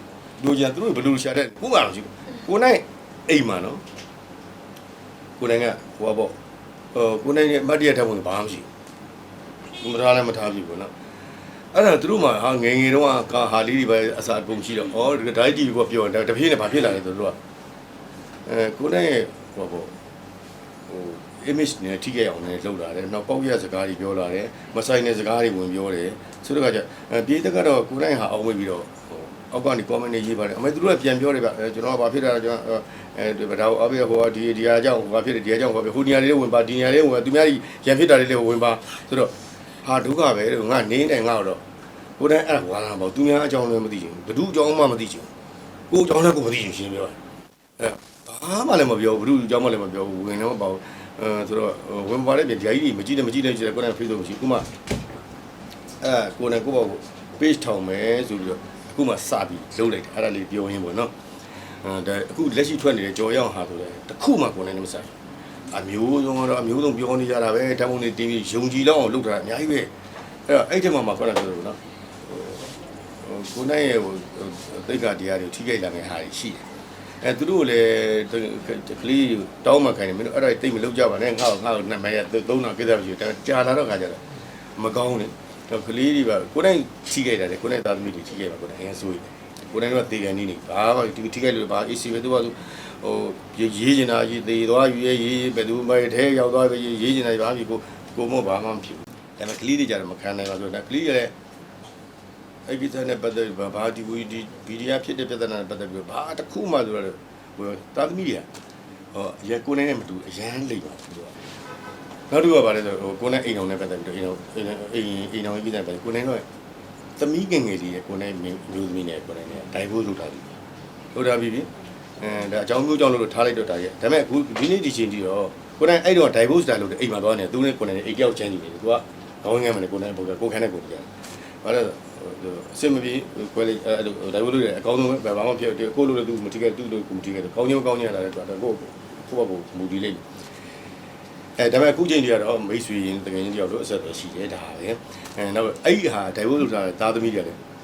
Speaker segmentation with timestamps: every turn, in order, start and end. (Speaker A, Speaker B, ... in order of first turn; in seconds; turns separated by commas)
Speaker A: 0.4-3.8, Speaker A: 5.4-6.4, Speaker A: 6.9-8.7, Speaker A: 9.8-10.9, Speaker A: 11.7-17.4, Speaker A: 18.4-20.0, Speaker A: 20.9-41.6, Speaker A: 42.2-45.3, Speaker A: 45.9-47.2, Speaker A: 47.8-54.7, Speaker A: 56.0-61.1, Speaker A: 61.8-65.2, Speaker A: 65.7-69.9, Speaker A: 70.5-76.7, Speaker A: 77.2-101.3, Speaker A: 102.7-108.5, Speaker A: 109.1-111.4, Speaker A: 112.3-116.5, Speaker A: 117.2-120.6, Speaker A: 121.1-140.2, Speaker A: 141.6-147.6